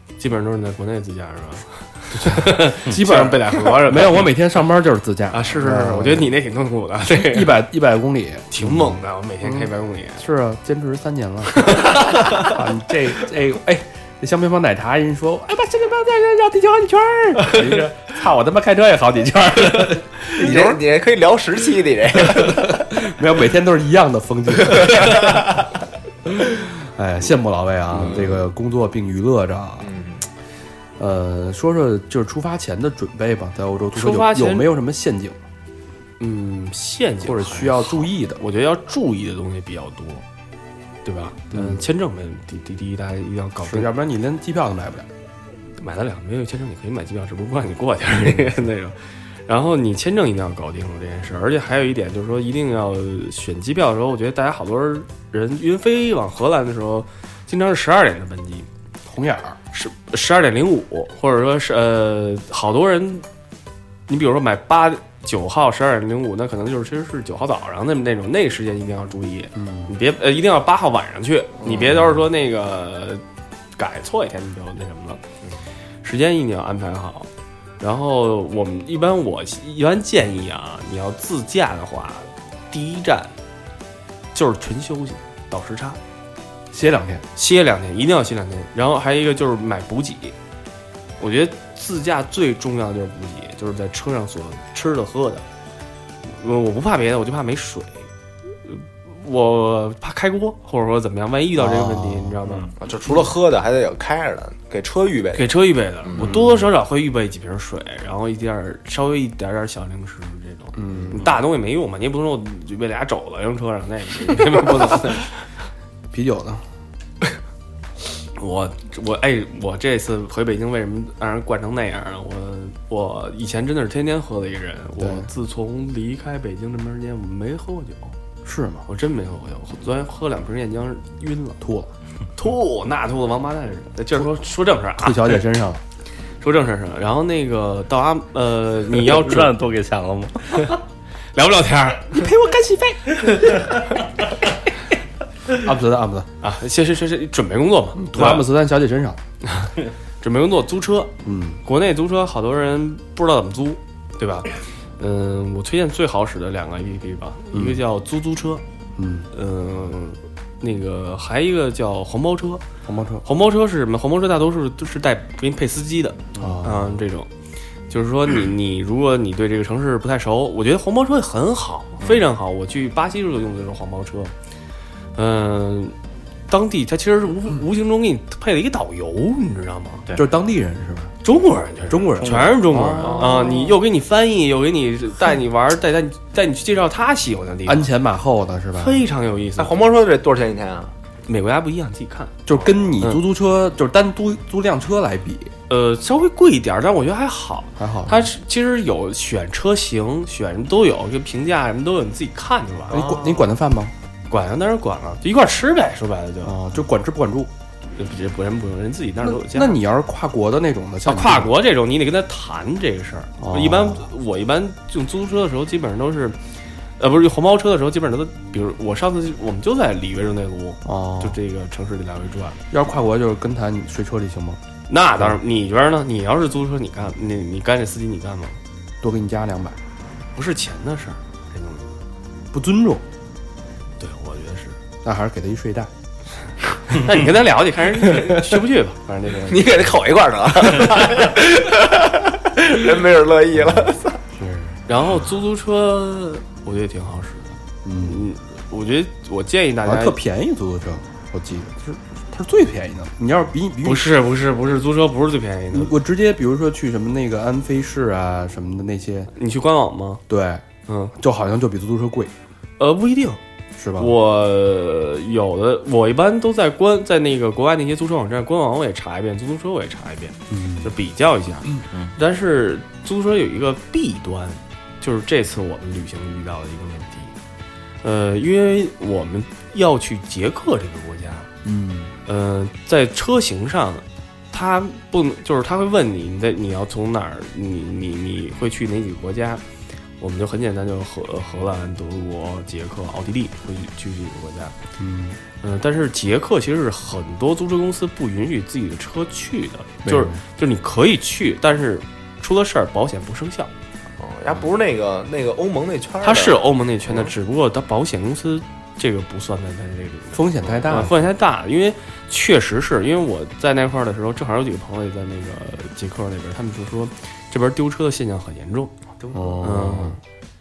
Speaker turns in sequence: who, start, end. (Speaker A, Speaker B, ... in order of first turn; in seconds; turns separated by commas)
Speaker A: 0.2-4.3, Speaker B: 2.1-6.3, Speaker A: 5.3-7.7, Speaker B: 7.0-20.8, Speaker A: 8.5-10.2, Speaker A: 11.6-12.4, Speaker A: 17.5-17.8, Speaker C: 20.3-22.9, Speaker B: 22.2-25.6, Speaker B: 26.2-29.9, Speaker C: 27.9-28.4, Speaker C: 29.8-30.2, Speaker B: 31.0-35.4, Speaker A: 33.9-34.7, Speaker A: 36.2-40.2, Speaker B: 37.2-38.4, Speaker A: 41.0-43.9, Speaker B: 41.5-41.8, Speaker B: 43.6-45.1, Speaker A: 45.8-49.0, Speaker A: 49.5-58.7, Speaker B: 59.0-59.6, Speaker A: 59.7-63.2, Speaker A: 64.1-73.2, Speaker B: 69.5-69.9, Speaker C: 71.6-71.9, Speaker B: 71.8-72.2, Speaker A: 73.8-75.2, Speaker A: 76.0-77.3, Speaker A: 77.8-83.3, Speaker A: 84.3-86.0, Speaker B: 86.7-87.2, Speaker A: 87.3-90.3, Speaker A: 91.2-95.4, Speaker A: 96.2-98.1, Speaker A: 98.6-102.7, Speaker B: 101.5-102.4, Speaker C: 102.8-105.5, Speaker A: 105.3-115.4, Speaker C: 106.0-106.3, Speaker B: 106.2-106.5, Speaker B: 110.7-111.3, Speaker B: 116.1-116.6, Speaker A: 118.3-128.1, Speaker B: 125.0-125.3, Speaker B: 128.4-128.8, Speaker A: 128.9-131.6, Speaker B: 131.6-131.9, Speaker A: 132.3-135.4, Speaker B: 134.9-135.8, Speaker A: 136.4-139.6, Speaker D: 138.9-140.8, Speaker A: 140.5-140.8, Speaker A: 141.3-142.2, Speaker B: 142.1-143.6, Speaker B: 145.5-146.3, Speaker A: 146.4-148.5, Speaker B: 148.0-149.2, Speaker A: 149.4-158.6, Speaker B: 151.2-151.6, Speaker B: 157.5-157.8, Speaker B: 158.9-159.3, Speaker A: 159.3-162.6, Speaker B: 162.8-163.2, Speaker A: 163.2-167.3, Speaker B: 166.4-167.0, Speaker A: 167.9-174.3, Speaker A: 175.1-175.9, Speaker A: 176.5-180.0, Speaker B: 180.1-181.1, Speaker A: 181.2-187.9, Speaker B: 181.9-183.7, Speaker D: 182.2-182.6, Speaker B: 187.7-189.0, Speaker A: 188.8-189.8, Speaker C: 189.6-190.9, Speaker A: 191.3-192.4, Speaker B: 192.4-195.5, Speaker A: 195.7-203.1, Speaker B: 197.8-198.3, Speaker B: 202.9-203.9, Speaker A: 204.3-206.6, Speaker B: 206.4-207.5, Speaker A: 207.9-209.8, Speaker B: 209.2-211.5, Speaker A: 211.0-216.4, Speaker B: 213.4-214.1, Speaker A: 217.0-222.6, Speaker B: 220.8-221.4, Speaker B: 222.7-224.6, Speaker A: 224.9-228.6, Speaker B: 229.0-229.8, Speaker A: 230.3-231.9, Speaker B: 232.5-233.0, Speaker A: 234.0-234.8, Speaker B: 235.0-235.9, Speaker A: 236.8-240.0, Speaker C: 239.5-244.2, Speaker B: 243.5-244.8, Speaker A: 244.9-250.2, Speaker B: 247.8-248.3, Speaker B: 249.8-254.2, Speaker A: 253.8-256.0, Speaker B: 255.7-259.3, Speaker A: 259.3-260.2, Speaker B: 260.3-260.6, Speaker A: 260.9-261.1, Speaker B: 261.1-262.3, Speaker A: 262.8-263.4, Speaker B: 263.8-264.1, Speaker A: 263.9-277.3, Speaker B: 270.5-270.9, Speaker A: 278.0-281.5, Speaker B: 281.6-282.1, Speaker A: 282.2-289.6, Speaker A: 290.2-294.7, Speaker B: 295.0-295.4, Speaker A: 295.6-303.7, Speaker B: 300.0-300.4, Speaker C: 304.2-307.3, Speaker A: 306.2-318.9, Speaker B: 310.3-311.1, Speaker C: 319.2-319.6, Speaker B: 319.3-320.2, Speaker A: 319.6-320.2